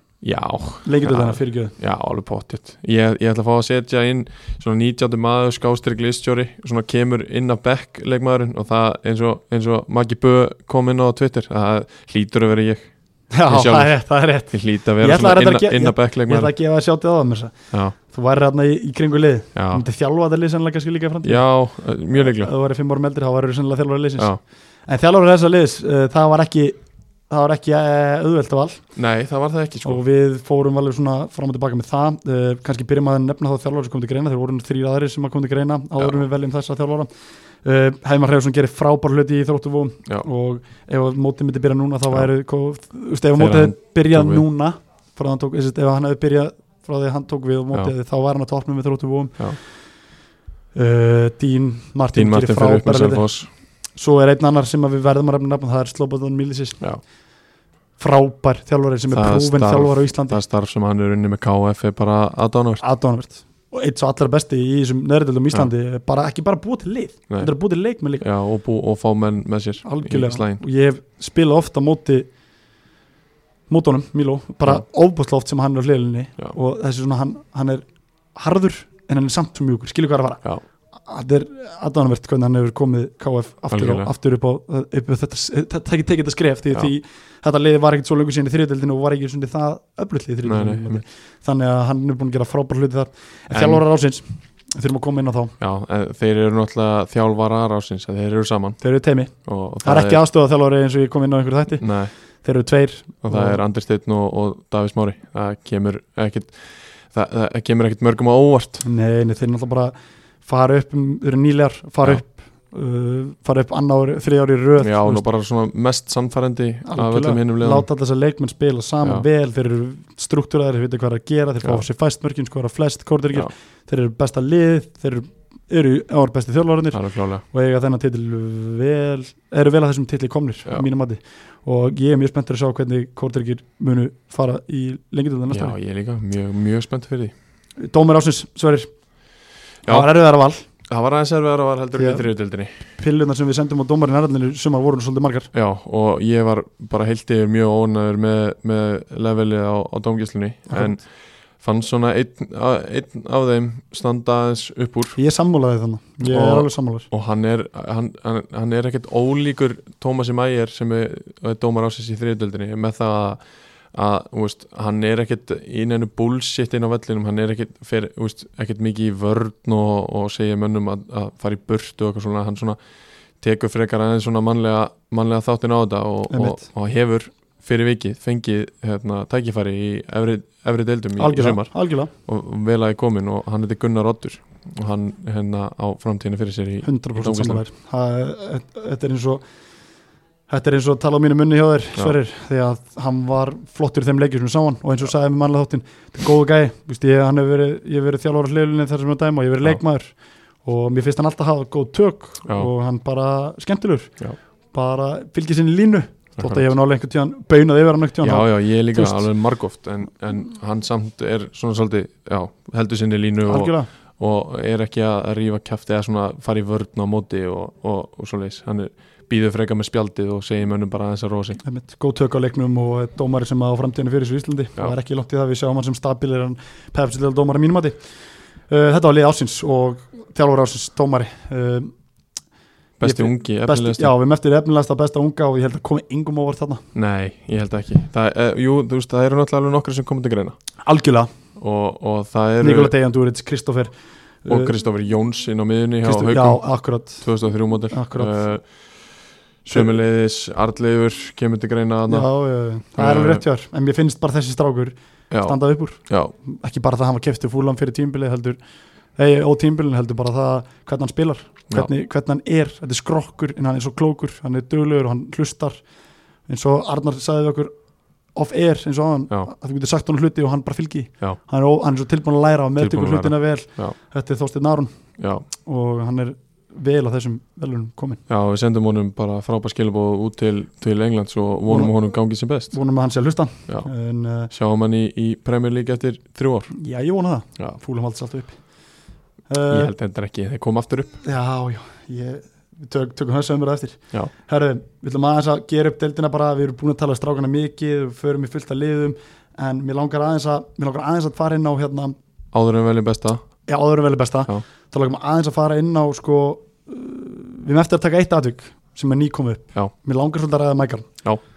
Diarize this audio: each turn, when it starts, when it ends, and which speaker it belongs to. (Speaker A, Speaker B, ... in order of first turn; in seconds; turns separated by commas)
Speaker A: 0.2-16.5, Speaker B: 0.8-1.7, Speaker B: 13.3-28.9, Speaker A: 19.5-19.8, Speaker A: 21.2-22.5, Speaker A: 28.9-30.0, Speaker B: 29.8-37.1, Speaker B: 37.6-49.6, Speaker A: 43.4-44.4, Speaker B: 50.7-56.9, Speaker A: 52.1-53.5, Speaker B: 58.0-60.4, Speaker A: 59.1-62.8, Speaker B: 62.8-68.2, Speaker A: 68.2-70.6, Speaker B: 69.8-72.3, Speaker B: 73.7-80.4, Speaker B: 81.0-95.5, Speaker A: 83.7-84.1, Speaker A: 90.4-91.0, Speaker A: 93.5-93.8, Speaker A: 95.6-100.2, Speaker B: 98.8-103.6, Speaker A: 101.8-102.1, Speaker A: 103.2-108.8, Speaker B: 108.8-115.2, Speaker A: 114.8-117.8, Speaker B: 116.9-135.8, Speaker A: 126.9-127.4, Speaker A: 135.5-137.3, Speaker B: 137.8-138.9, Speaker B: 139.8-140.6, Speaker A: 140.9-142.8, Speaker B: 141.9-142.2, Speaker B: 143.0-145.5, Speaker A: 145.5-155.2, Speaker B: 150.7-150.9, Speaker B: 155.2-157.1, Speaker A: 156.2-172.8, Speaker A: 173.4-187.6, Speaker B: 176.3-176.6, Speaker B: 181.2-182.1, Speaker B: 186.8-189.4, Speaker B: 190.5-209.2, Speaker A: 206.4-206.6, Speaker A: 208.2-221.6, Speaker B: 213.4-213.9, Speaker B: 221.6-228.1, Speaker B: 228.7-231.9, Speaker A: 233.0-234.1, Speaker B: 233.0-236.8, Speaker A: 236.9-240.6, Speaker B: 240.8-241.3, Speaker A: 241.6-242.9, Speaker B: 242.6-244.7, Speaker A: 244.5-252.3, Speaker B: 246.0-247.4, Speaker B: 247.9-248.3, Speaker B: 249.7-249.9, Speaker B: 252.1-258.6, Speaker A: 252.9-253.4, Speaker A: 255.3-256.3, Speaker B: 259.1-265.8, Speaker B: 266.4-267.7, Speaker B: 268.3-278.2, Speaker A: 272.8-273.9, Speaker A: 275.2-275.4, Speaker A: 278.3-282.8, Speaker B: 281.7-281.9, Speaker B: 282.7-284.5, Speaker A: 284.5-286.7, Speaker B: 286.7-288.8, Speaker B: 289.5-289.9, Speaker A: 289.7-291.2, Speaker B: 291.2-302.2, Speaker A: 302.5-303.4, Speaker B: 303.7-311.2